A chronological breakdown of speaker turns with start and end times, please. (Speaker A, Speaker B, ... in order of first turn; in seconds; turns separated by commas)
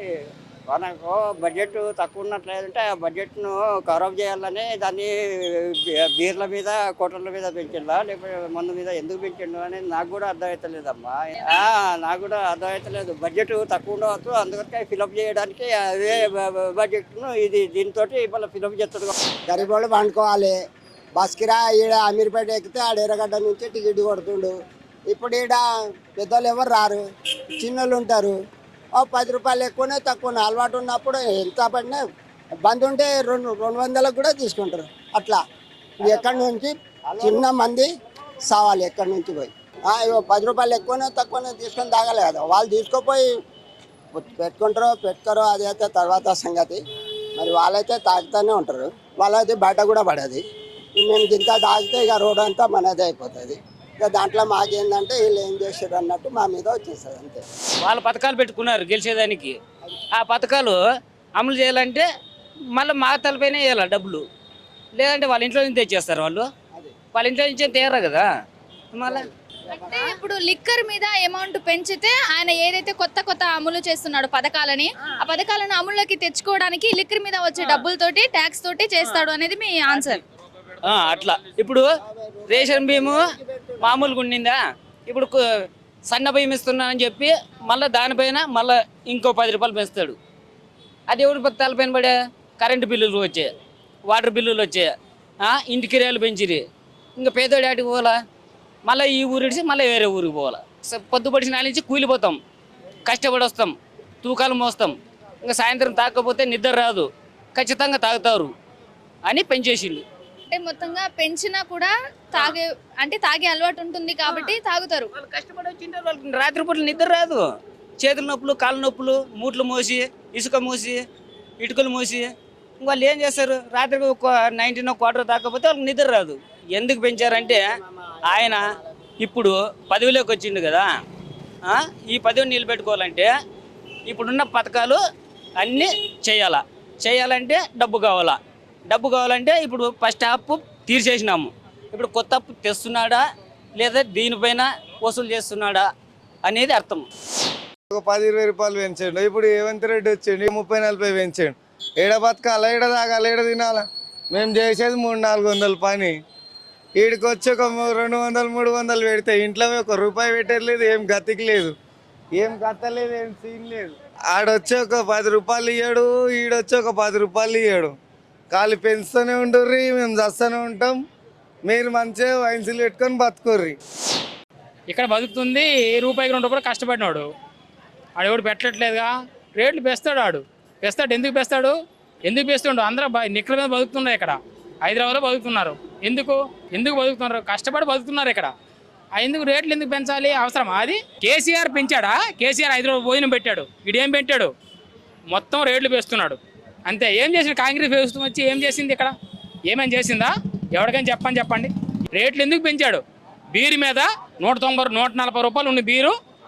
Speaker A: 0.7-19.1, Speaker B: 19.5-20.6, Speaker B: 21.1-24.5, Speaker B: 25.1-25.6, Speaker B: 26.2-27.0, Speaker B: 27.6-28.3, Speaker B: 29.0-32.0, Speaker B: 32.6-35.4, Speaker B: 36.0-37.9, Speaker B: 38.5-43.3, Speaker B: 44.1-46.8, Speaker B: 47.4-50.4, Speaker B: 51.0-57.4, Speaker C: 57.8-59.5, Speaker C: 60.1-60.8, Speaker C: 61.4-62.1, Speaker C: 62.7-64.2, Speaker C: 65.0-66.4, Speaker C: 67.1-68.3, Speaker C: 68.9-69.3, Speaker B: 69.1-70.1, Speaker D: 69.7-80.2, Speaker C: 80.9-81.9, Speaker B: 82.0-84.1, Speaker C: 82.5-83.3, Speaker C: 83.8-85.4, Speaker C: 86.1-90.2, Speaker C: 91.1-93.5, Speaker C: 94.1-96.6, Speaker C: 97.2-98.2, Speaker C: 98.8-102.4, Speaker C: 103.1-108.5, Speaker C: 109.3-110.0, Speaker D: 110.5-115.1, Speaker C: 115.2-117.4, Speaker C: 118.0-121.0, Speaker C: 121.6-122.3, Speaker C: 122.8-127.7, Speaker B: 127.2-128.9, Speaker C: 128.2-128.6, Speaker C: 129.2-130.9, Speaker C: 131.7-133.3, Speaker C: 134.1-135.0, Speaker C: 135.6-138.4, Speaker C: 138.9-143.2, Speaker C: 143.8-145.9, Speaker C: 146.4-147.1, Speaker E: 147.9-156.2, Speaker E: 157.0-161.7, Speaker E: 162.4-167.9, Speaker E: 168.5-171.0, Speaker E: 171.7-173.8, Speaker F: 174.9-177.3, Speaker F: 178.2-181.8, Speaker F: 182.3-188.5, Speaker F: 189.2-194.5, Speaker F: 195.3-199.1, Speaker F: 199.7-203.0, Speaker F: 203.5-206.1